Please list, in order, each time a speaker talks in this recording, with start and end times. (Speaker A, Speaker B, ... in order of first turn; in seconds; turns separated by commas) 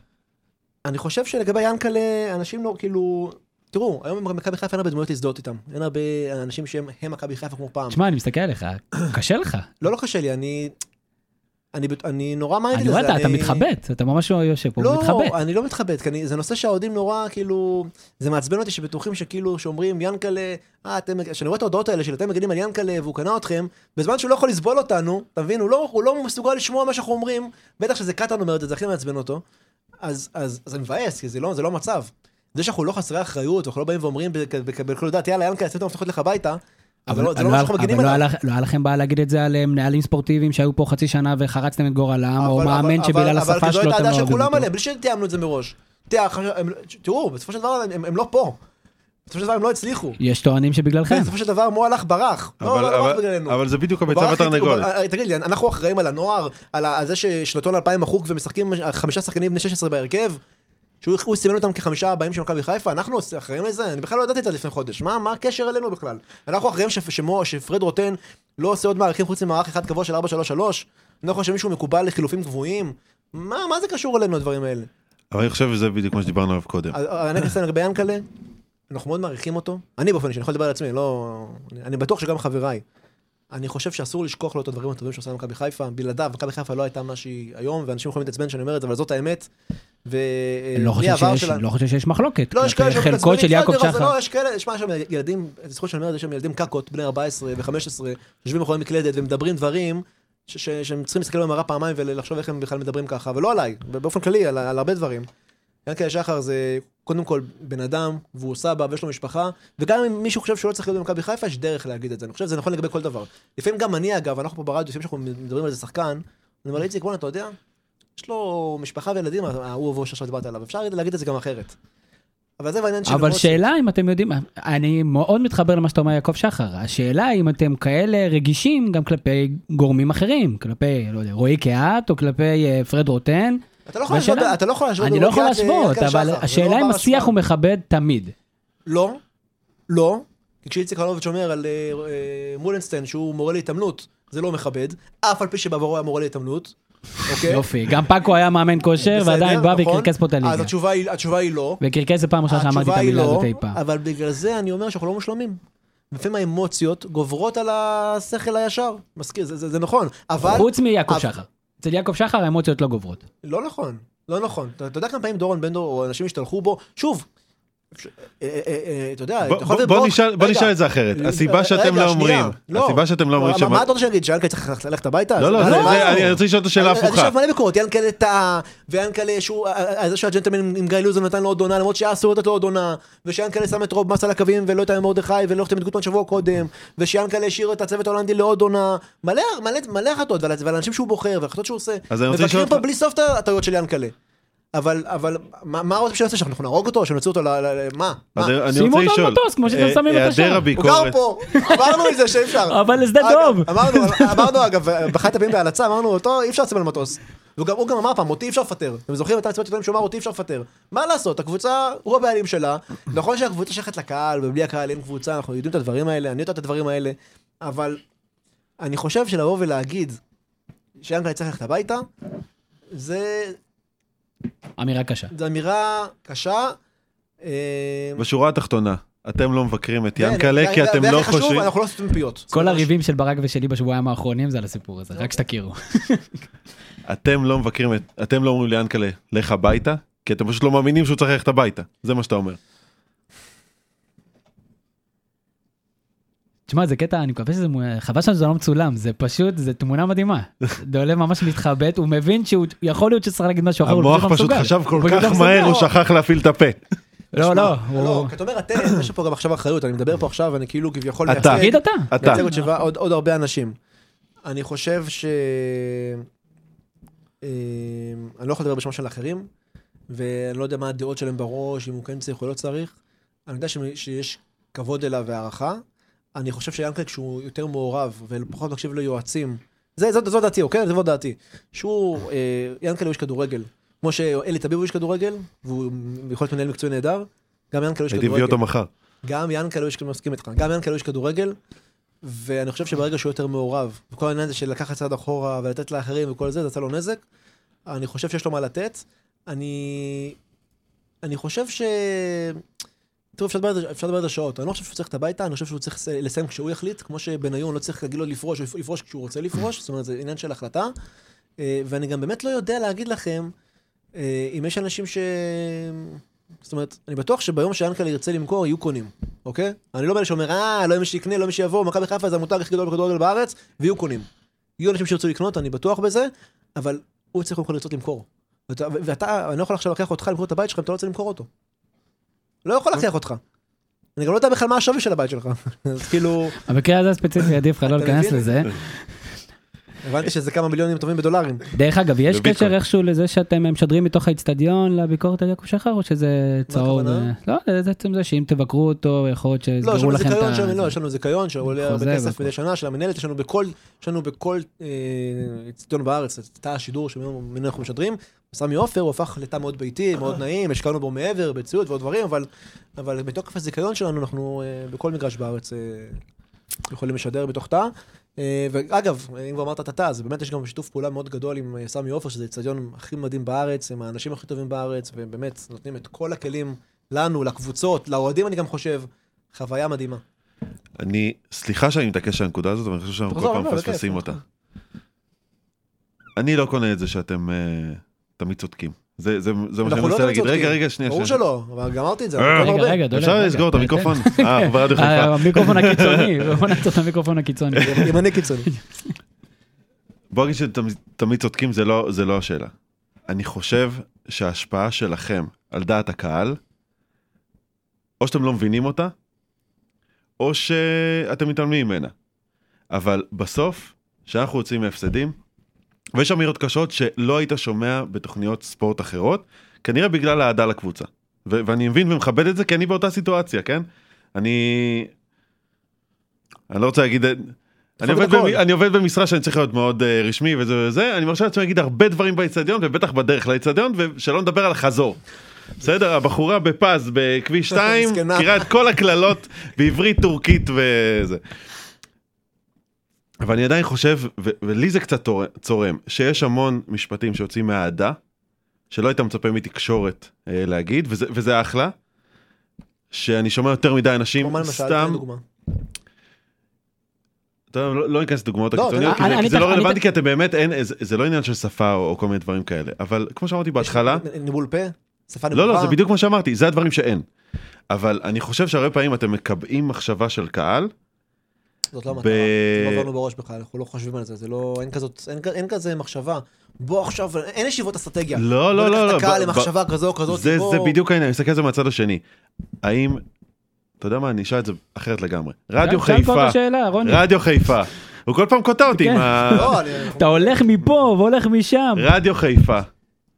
Speaker A: 0.8-8.0, Speaker B: 7.9-9.7, Speaker A: 9.8-10.7, Speaker A: 11.7-13.7, Speaker B: 12.7-15.3, Speaker A: 14.8-29.4, Speaker A: 30.0-38.2, Speaker B: 37.1-44.7, Speaker A: 42.4-48.6, Speaker A: 49.3-50.2, Speaker B: 50.2-51.3, Speaker A: 51.1-60.4, Speaker C: 52.6-54.9, Speaker A: 61.0-74.9, Speaker C: 75.3-77.0, Speaker A: 76.9-78.3, Speaker A: 78.9-82.8, Speaker A: 83.5-89.5, Speaker A: 90.0-91.6, Speaker B: 90.8-94.1, Speaker A: 92.5-105.3, Speaker A: 105.9-117.5, Speaker A: 118.2-121.8, Speaker A: 122.6-123.7, Speaker B: 123.1-138.3, Speaker A: 133.9-137.3, Speaker A: 138.9-139.2, Speaker A: 139.9-147.7, Speaker B: 147.4-150.7, Speaker A: 149.0-151.8, Speaker B: 151.8-153.8, Speaker A: 152.5-155.6, Speaker A: 156.1-161.3, Speaker B: 160.4-163.2, Speaker A: 163.4-167.3, Speaker A: 167.9-194.1, Speaker C: 169.4-173.9, Speaker C: 175.4-177.3, Speaker B: 175.6-176.2, Speaker C: 192.1-192.8, Speaker A: 194.8-198.6, Speaker C: 198.4-201.2, Speaker B: 198.8-200.7, Speaker A: 200.8-218.0, Speaker B: 201.6-204.6, Speaker A: 218.8-220.2, Speaker A: 221.0-222.1, Speaker A: 222.9-223.6, Speaker B: 224.8-225.3, Speaker A: 225.3-226.8, Speaker A: 227.4-228.2, Speaker C: 228.2-231.7, Speaker A: 230.2-232.9, Speaker B: 232.5-236.4, Speaker C: 237.1-242.6, Speaker B: 246.7-255.8, Speaker C: 253.8-256.8, Speaker A: 255.1-255.9, Speaker B: 257.3-258.3, Speaker A: 257.4-263.8, Speaker C: 261.3-262.4, Speaker B: 261.4-262.7, Speaker A: 264.5-266.3, Speaker A: 267.4-269.5, Speaker A: 270.1-272.9, Speaker A: 273.5-275.8, Speaker A: 276.4-288.6, Speaker C: 288.1-288.9, Speaker A: 289.2-291.6, Speaker A: 292.2-297.2, Speaker A: 297.9-300.4, Speaker A: 301.2-302.6, Speaker A: 303.4-310.9, Speaker A: 311.6-313.5, Speaker A: 314.2-324.3, Speaker A: 324.8-331.5, Speaker A: 332.6-333.4, Speaker A: 334.2-336.6, Speaker B: 336.7-339.1, Speaker A: 337.9-338.7, Speaker A: 340.0-341.7, Speaker B: 341.8-350.9, Speaker C: 342.3-342.7, Speaker A: 346.7-347.3, Speaker A: 349.8-366.2, Speaker B: 351.7-352.5, Speaker A: 366.9-380.2, Speaker C: 381.0-384.4, Speaker A: 383.3-384.3, Speaker C: 386.4-391.4, Speaker A: 389.8-393.0, Speaker C: 392.4-396.8, Speaker B: 392.4-398.1, Speaker A: 397.8-398.7, Speaker C: 400.3-402.7, Speaker C: 403.3-406.6, Speaker C: 408.2-409.1, Speaker C: 410.4-412.1, Speaker C: 412.9-415.4, Speaker C: 416.1-425.1, Speaker C: 426.7-435.2, Speaker A: 428.0-428.6, Speaker C: 435.8-441.4, Speaker A: 437.7-438.7, Speaker C: 443.4-448.2, Speaker C: 448.9-451.9, Speaker C: 453.1-455.2, Speaker A: 454.4-455.4, Speaker C: 457.7-464.2, Speaker A: 458.7-459.6, Speaker B: 459.1-460.0, Speaker A: 463.8-466.0, Speaker C: 465.5-467.2, Speaker C: 467.9-470.9, Speaker A: 471.9-480.9, Speaker C: 472.2-473.1, Speaker C: 478.4-479.7, Speaker C: 480.3-482.2, Speaker C: 482.8-483.2, Speaker C: 484.0-489.8, Speaker B: 485.8-487.2, Speaker B: 488.9-492.1, Speaker A: 489.5-490.6, Speaker C: 492.0-492.9